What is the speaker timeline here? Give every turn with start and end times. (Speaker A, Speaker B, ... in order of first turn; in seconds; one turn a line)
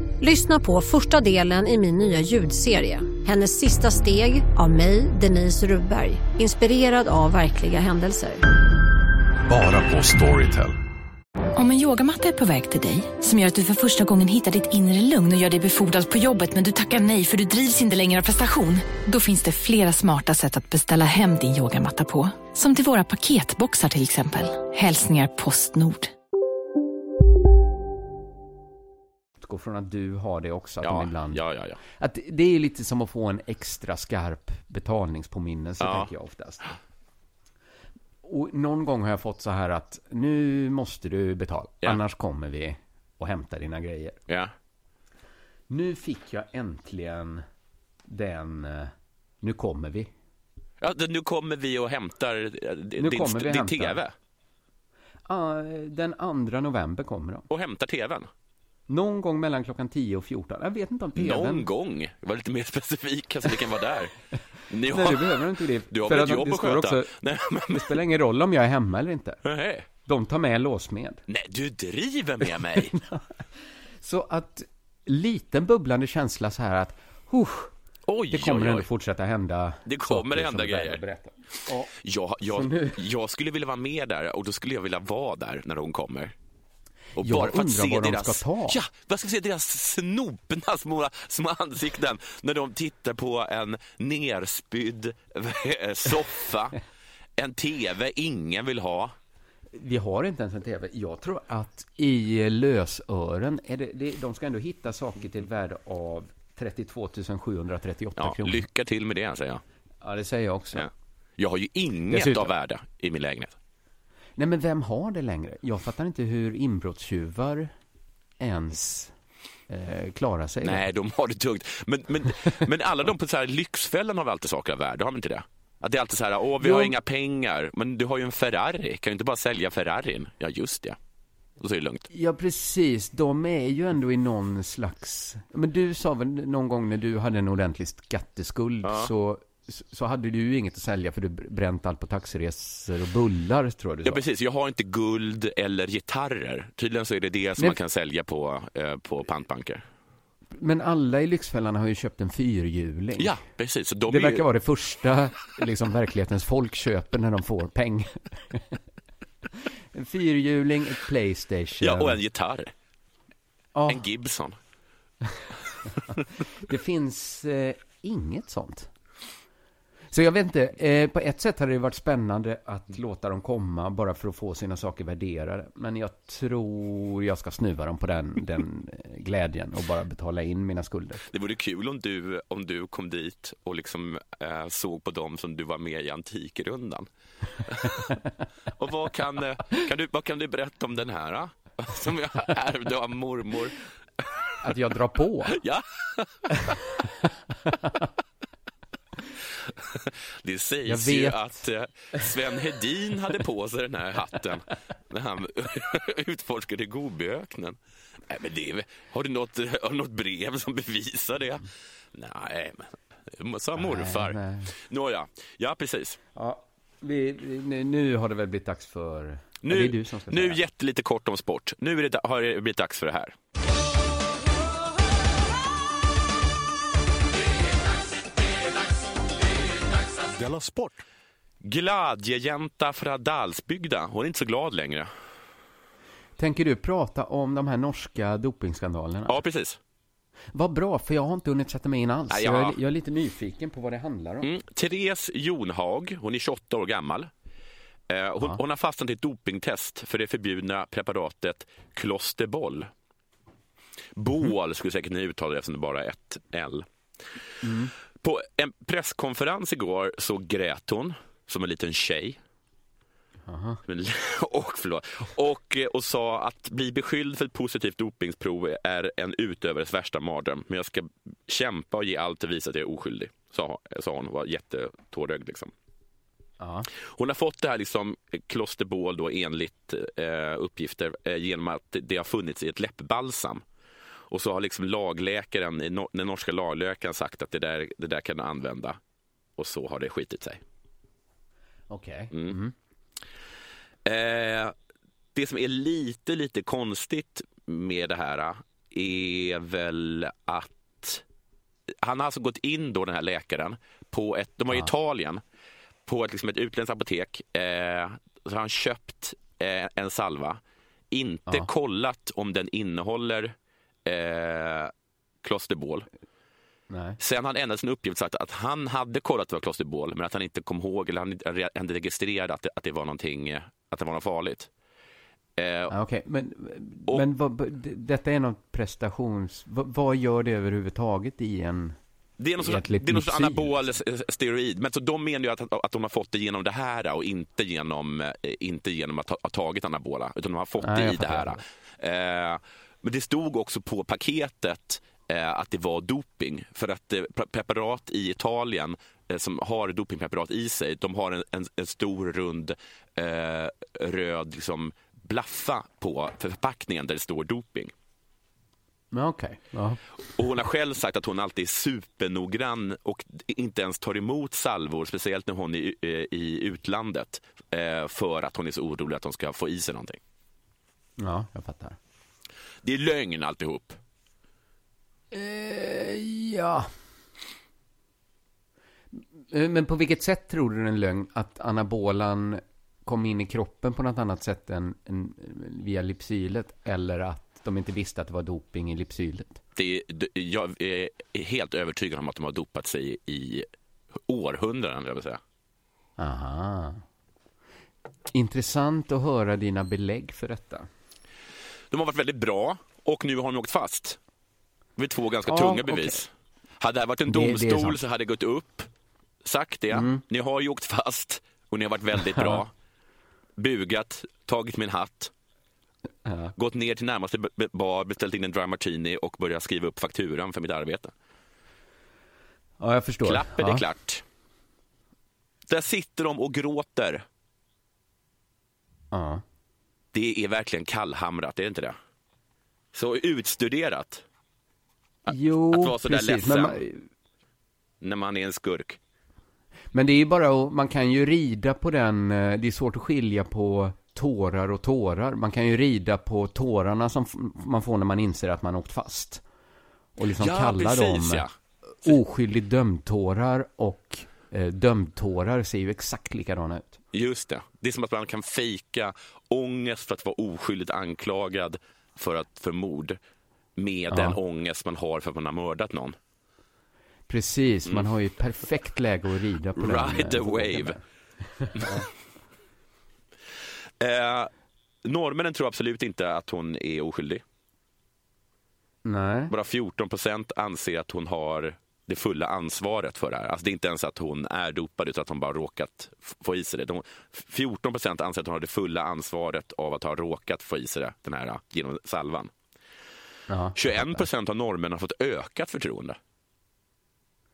Speaker A: 0.2-8.4
Speaker B: 9.5-10.8
Speaker C: 11.6-26.1
Speaker D: 29.4-36.6
Speaker E: 30.8-31.8
Speaker E: 35.8-36.1
Speaker D: 38.2-44.2
Speaker E: 44.3-44.5
Speaker D: 45.7-47.4
Speaker D: 48.1-50.1
Speaker E: 50.8-54.1
Speaker D: 53.0-54.0
Speaker D: 55.3-57.5
Speaker E: 57.5-58.3
Speaker D: 58.9-61.7
Speaker E: 61.1-64.1
Speaker E: 64.7-68.0
Speaker D: 64.9-67.1
Speaker D: 67.7-69.4
Speaker E: 69.4-69.9
Speaker D: 70.1-71.2
Speaker E: 71.3-73.0
Speaker D: 72.9-73.2
Speaker D: 74.0-77.7
Speaker E: 78.1-78.9
Speaker D: 78.3-81.9
Speaker E: 79.9-81.0
Speaker E: 81.9-86.3
Speaker D: 82.5-83.0
Speaker E: 87.2-96.8
Speaker D: 87.2-88.8
Speaker E: 97.4-99.1
Speaker D: 99.7-108.7
Speaker E: 108.2-109.6
Speaker D: 110.0-110.9
Speaker E: 110.8-113.6
Speaker D: 112.1-112.5
Speaker D: 114.4-117.7
Speaker D: 118.4-119.1
Speaker D: 119.7-120.8
Speaker E: 120.6-131.0
Speaker D: 126.6-126.9
Speaker E: 131.6-132.1
Speaker D: 132.1-144.2
Speaker E: 138.8-139.1
Speaker E: 144.1-149.8
Speaker D: 150.6-153.3
Speaker E: 153.2-154.4
Speaker D: 154.1-158.8
Speaker D: 159.9-162.2
Speaker E: 161.8-162.7
Speaker D: 163.8-164.1
Speaker E: 163.9-164.6
Speaker D: 166.1-168.9
Speaker D: 170.1-181.2
Speaker E: 181.3-187.1
Speaker E: 187.7-188.2
Speaker E: 188.8-193.8
Speaker D: 194.6-195.6
Speaker E: 195.5-196.8
Speaker E: 199.7-216.2
Speaker D: 200.9-201.6
Speaker D: 213.8-214.7
Speaker D: 216.3-220.6
Speaker E: 219.6-223.3
Speaker B: 230.4-231.0
Speaker E: 231.6-235.1
Speaker D: 236.4-239.4
Speaker E: 239.3-239.8
Speaker D: 240.5-244.5
Speaker E: 242.3-242.8
Speaker E: 244.4-247.3
Speaker E: 248.1-252.9
Speaker E: 254.2-256.9
Speaker D: 257.6-257.9
Speaker E: 258.2-262.4
Speaker D: 263.5-263.8
Speaker E: 263.9-275.7
Speaker D: 276.6-276.9
Speaker E: 276.9-283.6
Speaker E: 284.3-289.0
Speaker E: 289.6-290.6
Speaker D: 291.9-292.7
Speaker E: 294.1-294.8
Speaker E: 295.4-301.2
Speaker E: 302.0-305.4
Speaker E: 306.1-314.9
Speaker E: 315.4-316.1
Speaker D: 316.9-317.2
Speaker E: 317.2-324.7
Speaker E: 325.6-325.9
Speaker D: 325.9-332.0
Speaker E: 332.4-357.9
Speaker D: 332.6-333.8
Speaker D: 340.8-341.6
Speaker D: 359.1-360.0
Speaker E: 360.4-370.2
Speaker D: 371.2-372.0
Speaker E: 372.8-374.0
Speaker D: 375.3-376.9
Speaker D: 379.1-389.6
Speaker E: 389.8-393.7
Speaker E: 394.3-395.4
Speaker D: 396.2-397.0
Speaker D: 398.3-400.9
Speaker E: 401.9-404.2
Speaker E: 405.0-408.9
Speaker D: 405.5-406.2
Speaker D: 407.3-408.0
Speaker E: 409.4-412.7
Speaker D: 409.9-410.2
Speaker D: 412.3-412.6
Speaker E: 413.6-415.3
Speaker D: 416.2-416.6
Speaker E: 416.6-421.1
Speaker D: 422.8-423.9
Speaker E: 423.2-424.2
Speaker E: 425.7-427.2
Speaker D: 429.1-429.4
Speaker E: 430.1-432.0
Speaker E: 432.9-434.2
Speaker E: 435.3-436.8
Speaker D: 435.3-437.1
Speaker E: 438.0-439.0
Speaker D: 439.9-449.4
Speaker D: 450.2-451.5
Speaker E: 450.4-451.5
Speaker D: 452.0-457.0
Speaker E: 457.1-463.2
Speaker E: 463.8-466.2
Speaker D: 464.1-464.4
Speaker D: 467.3-472.1
Speaker E: 469.8-471.0
Speaker E: 471.8-472.1
Speaker E: 474.0-474.5
Speaker E: 475.0-477.4
Speaker D: 479.1-479.5
Speaker E: 479.5-492.5
Speaker D: 493.5-494.2
Speaker E: 493.8-496.2